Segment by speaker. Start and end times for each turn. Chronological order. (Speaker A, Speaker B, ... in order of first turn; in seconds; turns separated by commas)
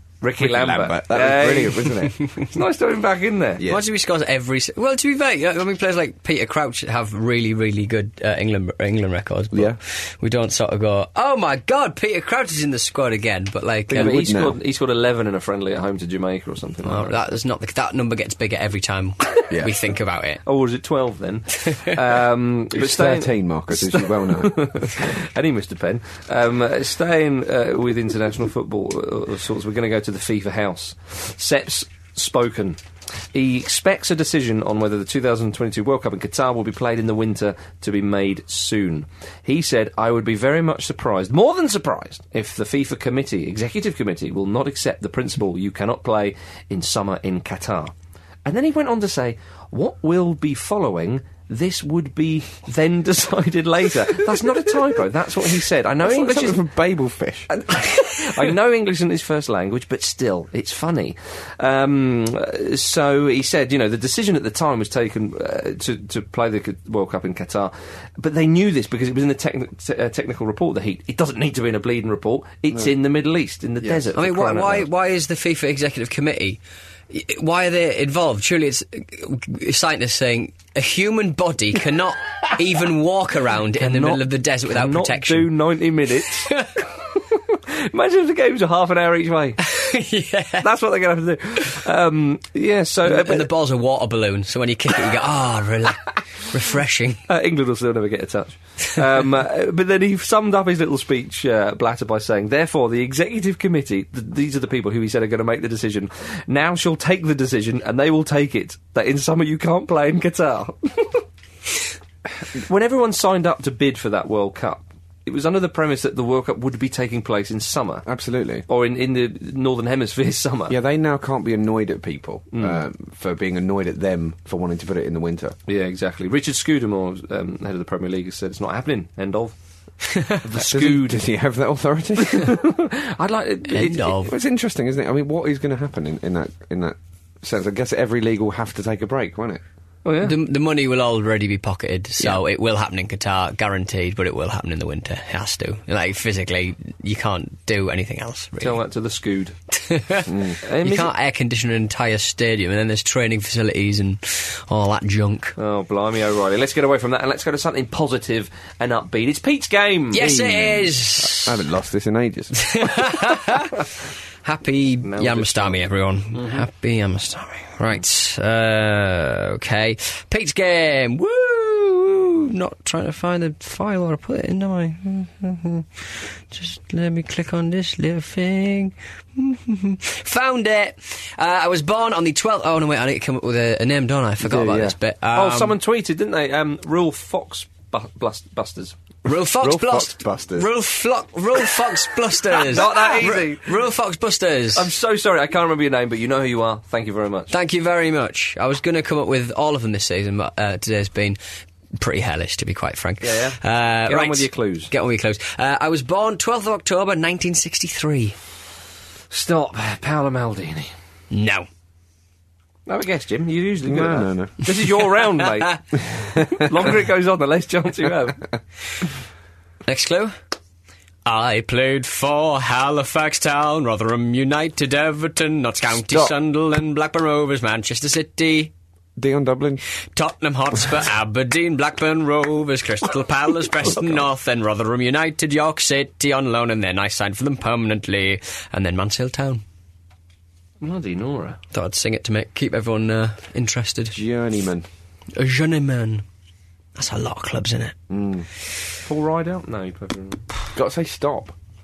Speaker A: 0.2-3.6, Speaker B: 0.4-2.2, Speaker B: 3.6-3.8, Speaker C: 3.6-14.2, Speaker B: 9.5-9.8, Speaker B: 13.9-14.6, Speaker A: 13.9-17.2, Speaker C: 16.8-20.4, Speaker B: 19.5-19.8, Speaker A: 20.4-32.8, Speaker B: 22.7-25.0, Speaker A: 33.3-47.9, Speaker A: 48.4-56.6, Speaker B: 56.0-57.5, Speaker A: 57.5-74.9, Speaker C: 74.2-76.6, Speaker C: 77.1-85.5, Speaker A: 83.8-89.7, Speaker C: 89.7-90.7, Speaker A: 90.6-93.5, Speaker C: 93.0-97.2, Speaker A: 97.3-111.2, Speaker A: 112.5-118.1, Speaker B: 118.0-118.6, Speaker A: 118.7-120.8, Speaker B: 120.7-125.5, Speaker A: 122.5-122.8, Speaker A: 125.7-129.5, Speaker A: 130.4-131.2, Speaker B: 130.6-132.6, Speaker A: 132.2-134.3, Speaker C: 133.7-134.3, Speaker B: 134.2-139.6, Speaker A: 140.0-140.4, Speaker C: 140.2-148.8, Speaker A: 148.6-149.5, Speaker C: 149.8-155.5, Speaker B: 150.3-150.6, Speaker A: 150.6-151.1, Speaker A: 155.6-160.3, Speaker C: 160.1-161.6, Speaker B: 160.2-162.7, Speaker C: 162.6-163.9, Speaker C: 164.4-185.8, Speaker A: 165.0-165.8, Speaker A: 166.3-166.6, Speaker B: 184.4-184.9, Speaker A: 185.3-188.9, Speaker C: 189.2-194.8, Speaker B: 189.3-190.7, Speaker A: 192.5-193.8, Speaker A: 194.7-197.5, Speaker C: 197.5-201.4, Speaker C: 201.9-208.3, Speaker A: 203.2-204.9, Speaker A: 209.3-210.9, Speaker C: 211.3-211.7, Speaker A: 212.9-218.4, Speaker B: 213.8-214.9, Speaker B: 216.1-216.8, Speaker C: 219.8-220.3, Speaker C: 221.2-228.7, Speaker B: 225.9-226.3, Speaker B: 229.2-229.8, Speaker C: 230.1-239.6, Speaker A: 240.8-241.6, Speaker C: 241.7-244.2, Speaker B: 244.1-244.9, Speaker C: 245.3-246.2, Speaker C: 246.9-247.9, Speaker B: 248.1-248.5, Speaker A: 249.0-250.4, Speaker B: 250.7-251.5